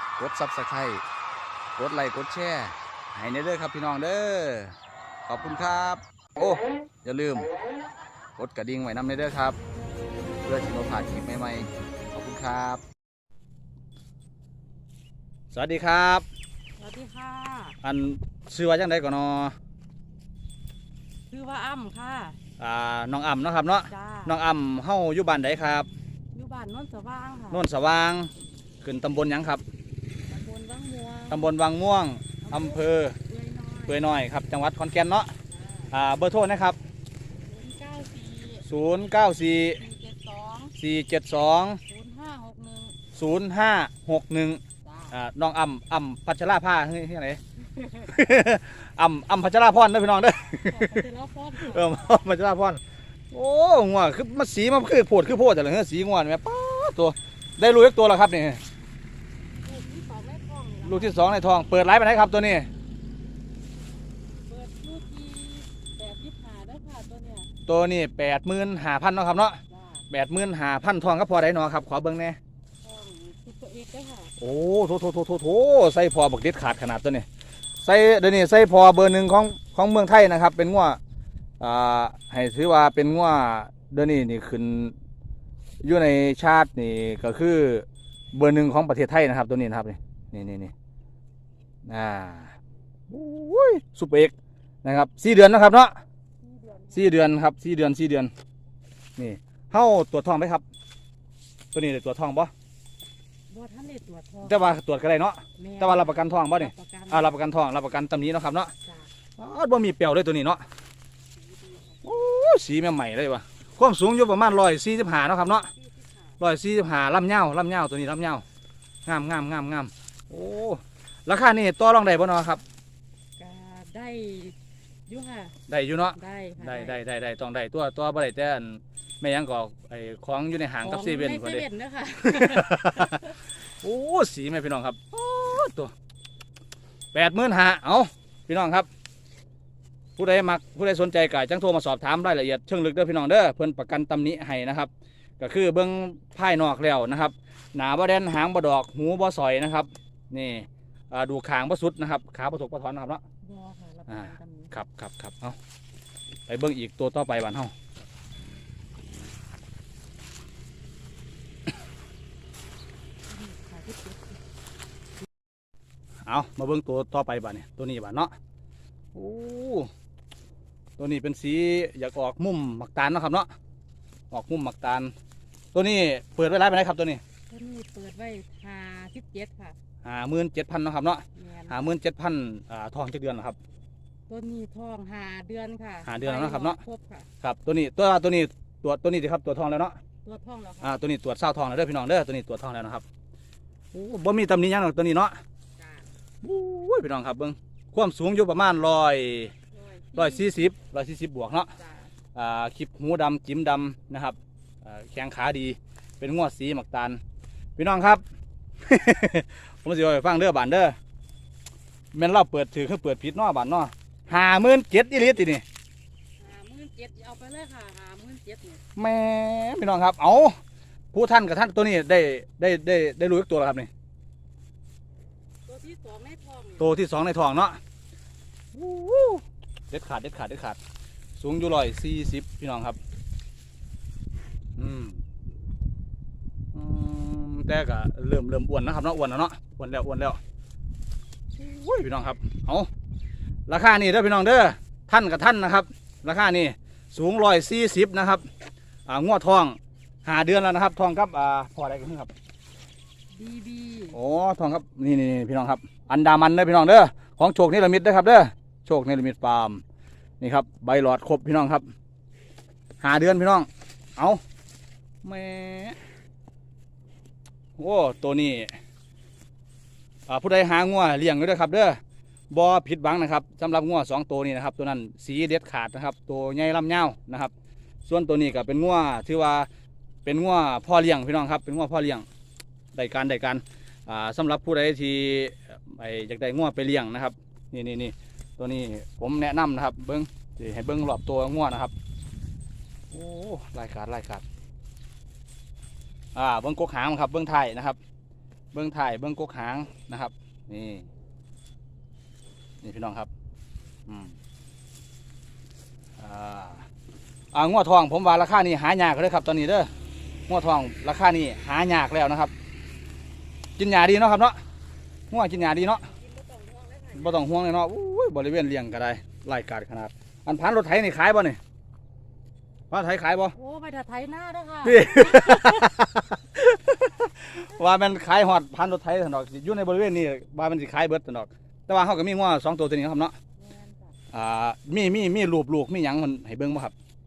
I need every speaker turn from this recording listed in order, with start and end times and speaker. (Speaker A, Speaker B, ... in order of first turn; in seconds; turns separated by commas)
Speaker A: 0.2-1.0, Speaker A: 1.8-7.5, Speaker A: 8.4-9.6, Speaker A: 10.4-12.8, Speaker A: 15.5-16.2, Speaker B: 16.8-17.8, Speaker A: 17.8-19.6, Speaker B: 21.3-22.4, Speaker A: 22.6-25.9, Speaker B: 23.9-24.4, Speaker B: 26.3-27.7, Speaker A: 27.5-29.6, Speaker B: 30.3-31.5, Speaker A: 31.3-33.2, Speaker B: 32.4-34.1, Speaker A: 33.9-35.3, Speaker A: 35.9-36.8, Speaker B: 37.5-38.7, Speaker A: 38.6-39.8, Speaker B: 39.8-40.8, Speaker A: 40.8-41.8, Speaker B: 41.8-43.0, Speaker A: 43.1-47.4, Speaker B: 44.8-45.1, Speaker B: 47.7-48.2, Speaker A: 48.1-51.1, Speaker B: 50.7-52.0, Speaker A: 51.6-52.8, Speaker A: 53.3-58.6, Speaker B: 59.6-61.2, Speaker A: 60.9-62.7, Speaker B: 64.4-67.5, Speaker A: 67.7-72.4, Speaker B: 69.7-70.0, Speaker B: 72.8-74.3, Speaker A: 74.4-77.3, Speaker A: 77.8-81.0, Speaker A: 81.6-84.9, Speaker A: 85.8-90.7, Speaker A: 91.9-92.5, Speaker A: 93.1-94.3, Speaker A: 94.8-96.0, Speaker B: 96.4-97.2, Speaker A: 96.9-98.3, Speaker A: 99.2-100.6, Speaker A: 101.7-102.5, Speaker B: 103.5-104.6, Speaker A: 104.4-108.7, Speaker B: 105.6-107.4, Speaker B: 108.8-109.1, Speaker A: 109.4-110.7, Speaker B: 111.4-112.0, Speaker A: 112.0-115.7, Speaker B: 115.7-116.3, Speaker A: 116.4-118.5, Speaker A: 119.1-122.6, Speaker B: 123.4-124.6, Speaker B: 125.1-125.6, Speaker A: 125.7-131.7, Speaker B: 126.2-127.0, Speaker B: 130.8-133.3, Speaker A: 132.2-133.2, Speaker A: 133.8-135.9, Speaker A: 137.1-138.9, Speaker A: 140.2-153.2, Speaker B: 153.4-154.8, Speaker A: 154.1-155.6, Speaker A: 156.5-157.7, Speaker B: 163.3-164.4, Speaker A: 166.3-168.3, Speaker A: 169.1-169.9, Speaker A: 171.0-173.5, Speaker A: 174.3-175.1, Speaker A: 175.7-177.2, Speaker B: 177.5-179.8, Speaker A: 180.0-183.6, Speaker B: 181.4-181.8, Speaker B: 184.3-187.3, Speaker A: 186.1-186.8, Speaker A: 187.4-190.0, Speaker B: 190.2-191.0, Speaker A: 190.8-193.0, Speaker A: 193.9-195.4, Speaker B: 195.8-196.1, Speaker A: 196.4-199.5, Speaker B: 199.7-200.7, Speaker A: 200.2-201.7, Speaker B: 201.8-202.1, Speaker A: 202.3-207.2, Speaker A: 207.8-208.2, Speaker A: 208.8-211.0, Speaker A: 212.1-215.6, Speaker B: 216.4-218.8, Speaker A: 219.0-220.6, Speaker A: 221.1-223.9, Speaker B: 225.7-227.0, Speaker A: 226.8-227.8, Speaker A: 228.7-230.8, Speaker A: 231.4-233.0, Speaker A: 234.8-235.2, Speaker A: 236.7-240.4, Speaker A: 241.6-242.9, Speaker A: 243.7-248.5, Speaker A: 249.1-252.3, Speaker B: 253.3-254.2, Speaker A: 254.1-259.8, Speaker A: 260.4-261.9, Speaker A: 263.0-264.4, Speaker A: 265.2-266.0, Speaker A: 267.8-268.7, Speaker A: 270.3-277.5, Speaker A: 278.1-279.7, Speaker A: 280.2-282.3, Speaker A: 282.9-291.9, Speaker A: 293.1-294.4, Speaker A: 296.4-298.0, Speaker A: 298.7-301.1, Speaker A: 302.8-303.3, Speaker A: 304.1-304.4, Speaker A: 306.2-306.9, Speaker A: 307.5-309.9, Speaker A: 310.5-312.5, Speaker A: 313.8-314.6, Speaker A: 315.3-316.1, Speaker B: 315.5-317.5, Speaker A: 317.1-321.6, Speaker A: 322.9-323.6, Speaker B: 323.5-325.9, Speaker A: 324.8-333.4, Speaker B: 333.6-334.1, Speaker A: 334.3-336.9